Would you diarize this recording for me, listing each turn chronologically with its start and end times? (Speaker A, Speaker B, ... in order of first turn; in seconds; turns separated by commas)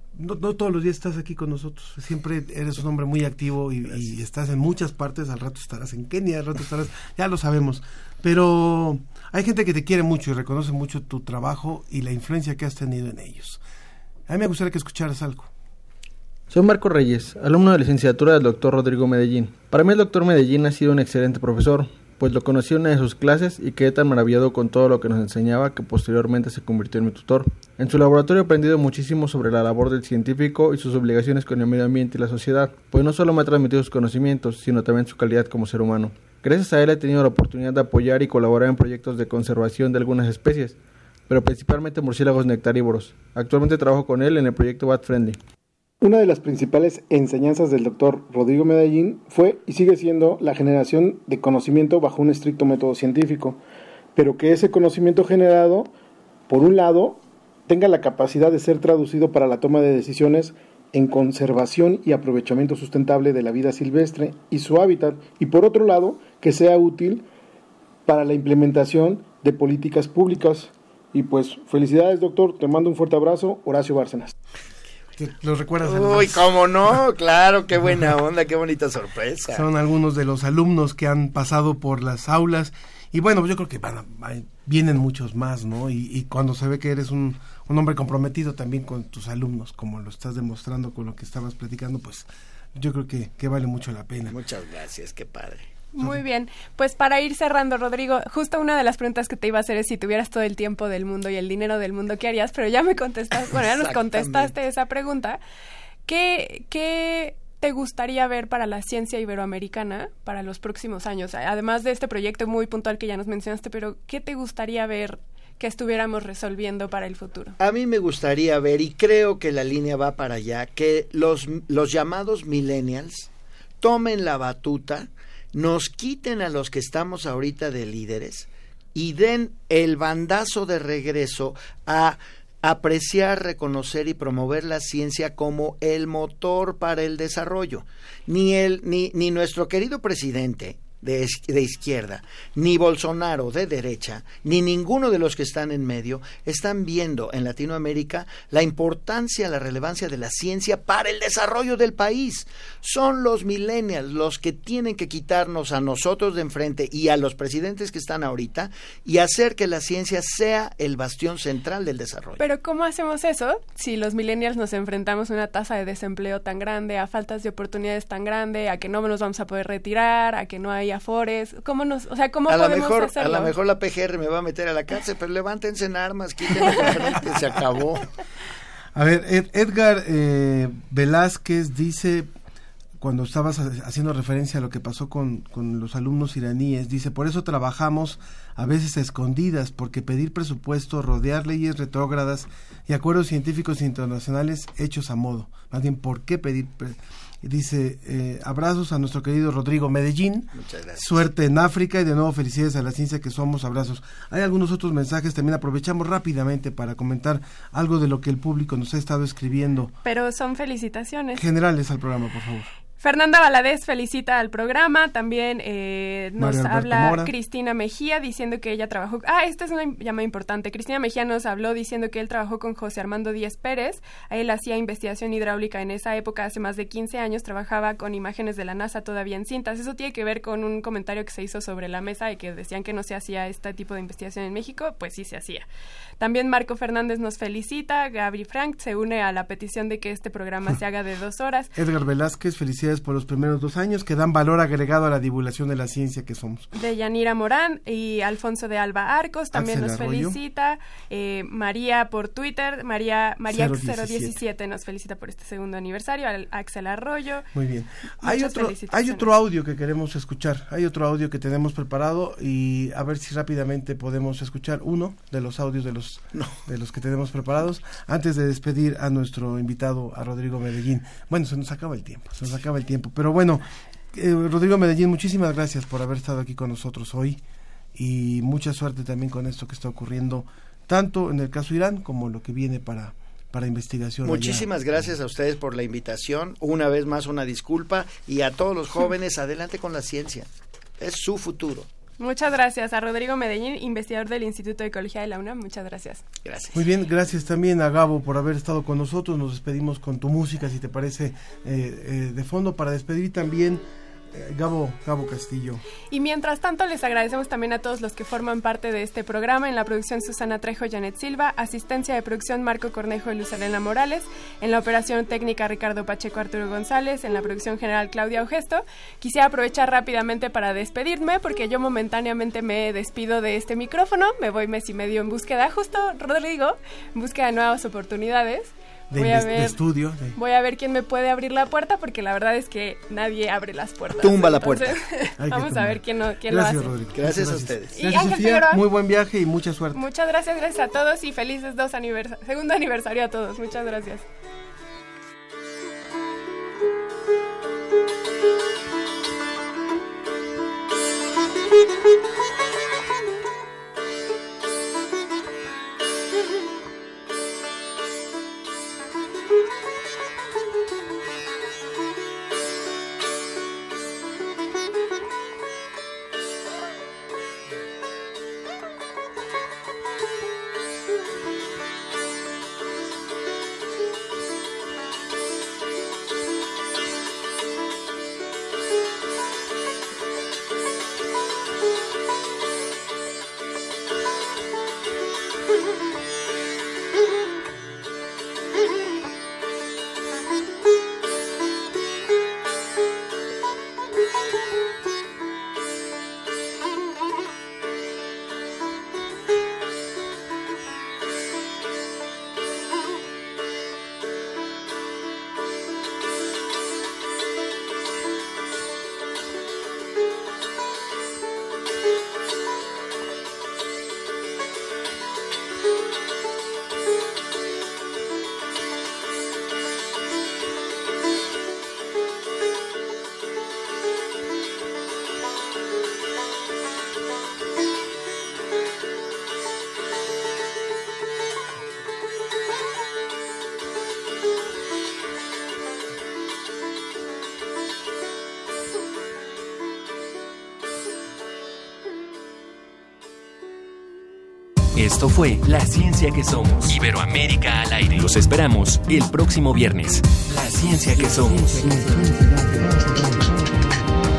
Speaker A: 0.1-13.6, Speaker A: 14.3-15.5, Speaker B: 16.5-40.8, Speaker B: 41.3-45.4, Speaker C: 46.0-53.6, Speaker C: 54.2-55.9, Speaker C: 56.5-67.2, Speaker C: 68.1-74.3, Speaker A: 75.2-76.5, Speaker D: 75.8-79.7, Speaker A: 79.5-94.4, Speaker D: 94.3-95.7, Speaker E: 95.9-105.4, Speaker D: 103.4-104.5, Speaker E: 106.1-117.6, Speaker D: 117.6-123.3, Speaker D: 123.8-162.4, Speaker E: 162.4-173.5, Speaker D: 172.5-178.1, Speaker A: 178.9-182.3, Speaker A: 183.0-209.9, Speaker D: 200.5-201.2, Speaker E: 210.0-211.4, Speaker A: 211.4-212.7, Speaker E: 213.0-235.7, Speaker A: 216.4-217.3, Speaker E: 236.2-241.7, Speaker A: 241.8-246.7, Speaker E: 246.7-257.4, Speaker A: 249.5-250.4, Speaker A: 253.5-254.4, Speaker A: 257.5-277.4, Speaker E: 258.2-259.3, Speaker A: 277.9-285.1, Speaker D: 284.2-291.9, Speaker E: 292.2-296.2, Speaker D: 296.4-296.8, Speaker A: 296.7-305.8, Speaker E: 306.1-329.8, Speaker A: 329.1-330.4, Speaker E: 330.4-336.9, Speaker D: 334.1-335.0, Speaker A: 335.4-340.0, Speaker D: 337.1-338.0, Speaker E: 337.9-338.8, Speaker E: 339.9-344.2, Speaker F: 444.9-453.6